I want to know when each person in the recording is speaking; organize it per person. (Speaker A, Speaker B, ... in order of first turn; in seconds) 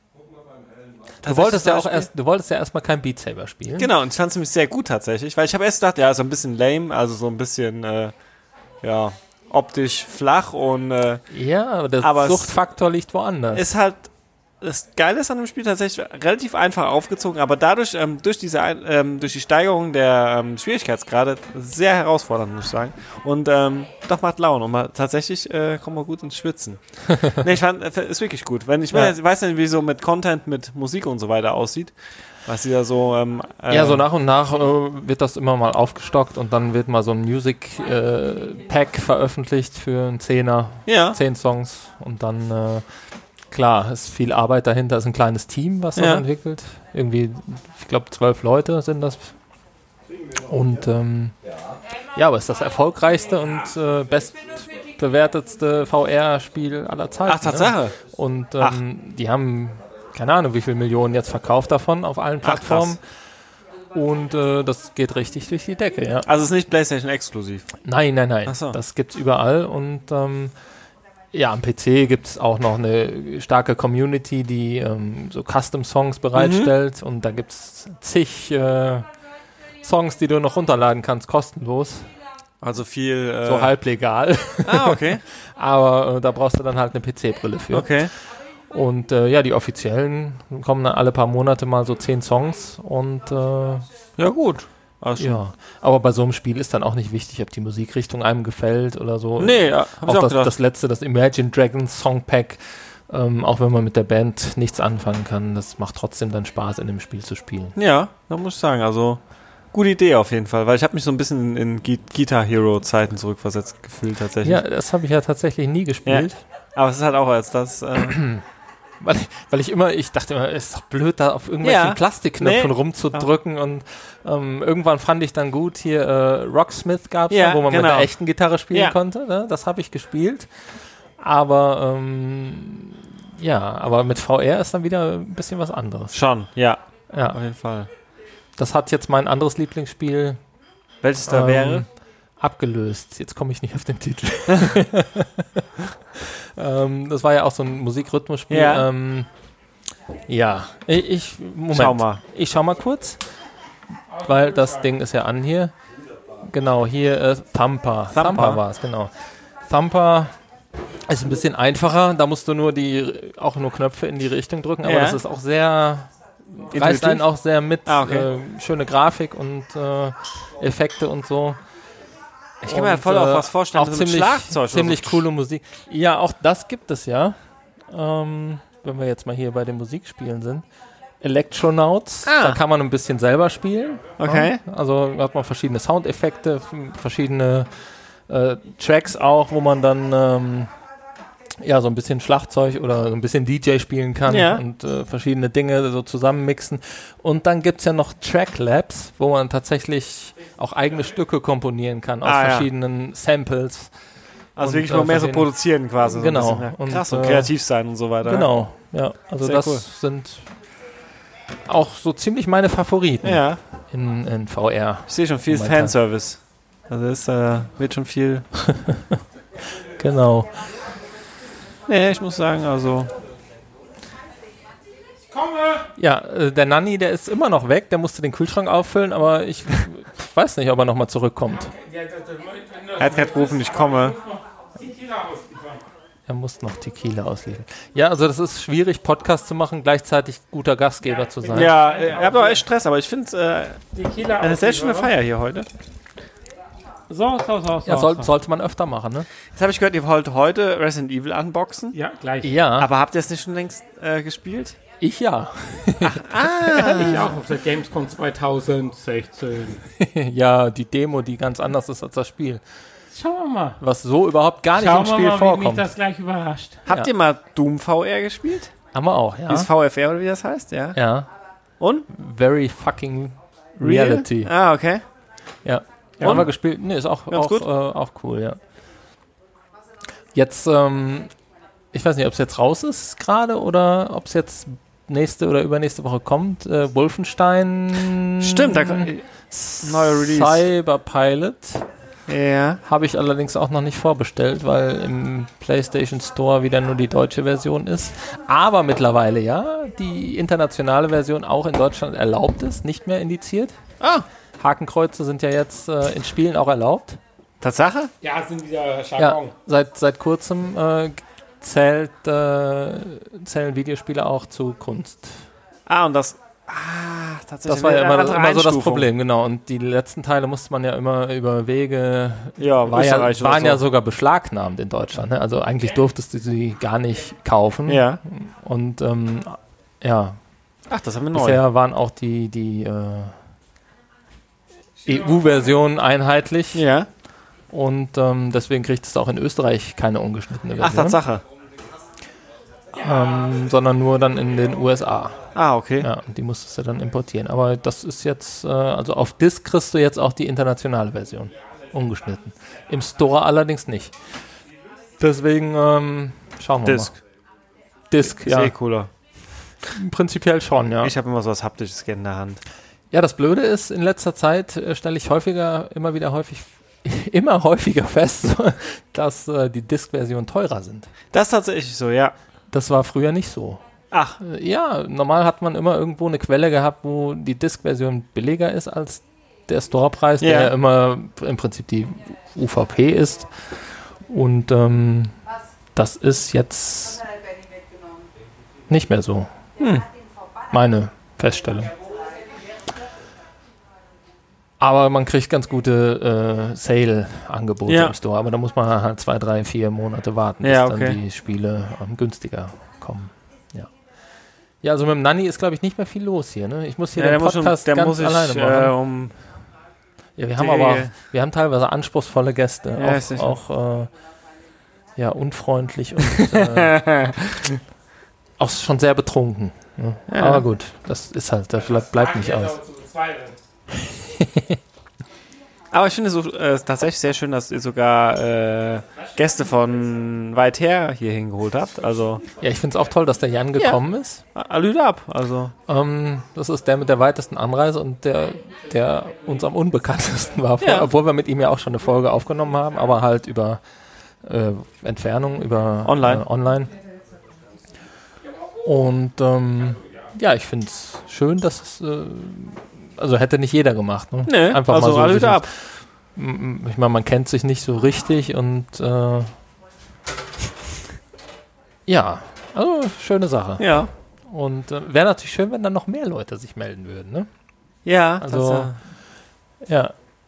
Speaker A: 1.2-2.1, 3.8-8.1, 8.8-11.2, 12.0-12.5, 13.5-14.1, 14.6-31.9, 32.5-34.0, 40.9-41.2, 46.0-46.2, 57.3-58.0, 62.4-63.0, 66.3-67.7, 68.5-68.8, 76.4-76.7, 82.6-83.7, 84.7-85.2, 87.7-88.1, 94.2-95.4, 99.4-100.5, 107.8-109.2, 109.7-114.6, 116.1-118.2, 121.6-123.3, 127.3-128.1, 136.1-137.9, 141.0-141.9, 148.5-148.9, 151.7-152.2, 158.1-158.6, 164.8-165.2, 166.7-167.2, 167.9-168.3, 172.6-175.2, 182.2-182.6, 184.2-184.6, 194.3-194.6, 202.2-202.7, 204.6-208.5, 209.4-209.8, 213.2-213.6, 215.1-218.5, 221.9-223.1, 233.0-234.2, 241.5-243.8, 244.4-245.7, 249.6-252.0, 252.8-254.8, 256.0-257.2, 266.9-268.8, 269.5-271.0, 271.8-272.1, 273.8-275.0, 276.2-276.5, 277.3-277.7, 288.4-289.2, 289.8-290.6, 292.3-292.8, 304.0-304.3, 307.6-308.1, 315.9-319.1, 322.6-323.8, 327.9-328.2, 330.9-331.6, 336.7-337.1, 340.8-341.4, 345.6-346.1, 356.9-357.2, 358.3-359.1, 361.0-362.6, 371.3-372.4, 374.1-374.4, 380.4-380.7, 389.8-390.1, 397.9-398.1, 400.6-401.2, 407.2-409.3, 410.6-411.1, 413.0-413.5, 416.3-417.7, 420.3-420.6, 425.9-432.4, 434.6-435.7, 440.8-441.1, 446.1-446.4, 454.5-455.7, 463.8-464.1, 468.1-469.0
Speaker B: 1.3-3.9, 11.3-13.7, 33.7-42.8, 43.5-49.3, 50.5-51.3, 52.2-63.0, 63.9-66.3, 67.8-70.5, 71.3-79.1, 79.8-82.1, 83.5-88.1, 88.7-93.9, 95.2-107.8, 114.4-116.4, 118.0-118.4, 119.0-130.5, 131.2-136.2, 137.1-137.4, 138.6-140.4, 141.3-141.9, 142.4-145.6, 146.2-149.3, 150.3-153.2, 154.2-155.7, 156.4-159.1, 159.7-160.3, 161.1-171.6, 172.7-177.4, 177.9-180.6, 181.2-187.7, 188.3-190.7, 191.6-203.9, 204.6-207.5, 208.2-210.5, 211.7-216.0, 218.7-219.0, 220.0-220.6, 226.0-231.7, 236.3-241.8, 247.9-249.3, 252.4-252.9, 255.0-257.3, 260.0-262.6, 263.8-265.9, 268.9-269.7, 270.9-271.3, 272.1-274.5, 275.6-278.6, 280.4-281.3, 281.9-291.9, 292.9-303.8, 304.6-307.2, 309.2-315.4, 317.7-330.4, 331.3-333.4, 335.1-336.9, 337.7-341.2, 343.0-354.1, 355.2-357.1, 358.1-358.8, 359.9-361.1, 363.1-371.1, 372.7-373.8, 374.4-383.5, 384.3-385.3, 386.0-387.2, 388.9-389.5, 390.7-391.9, 394.8-403.9, 404.8-409.0, 410.4-414.1, 415.2-417.0, 418.6-422.8, 424.2-424.8, 432.6-434.4, 435.9-443.8, 444.4-446.9, 448.9-455.8, 456.4-459.5, 462.1-464.0, 464.5-467.5, 468.4-469.0, 469.9-470.1
Speaker C: 225.4-225.8, 231.9-235.8, 241.4-242.6, 243.9-245.1, 247.1-248.3, 251.9-252.5, 256.9-259.8, 263.1-263.8, 264.7-266.9, 308.2-309.5, 422.9-423.5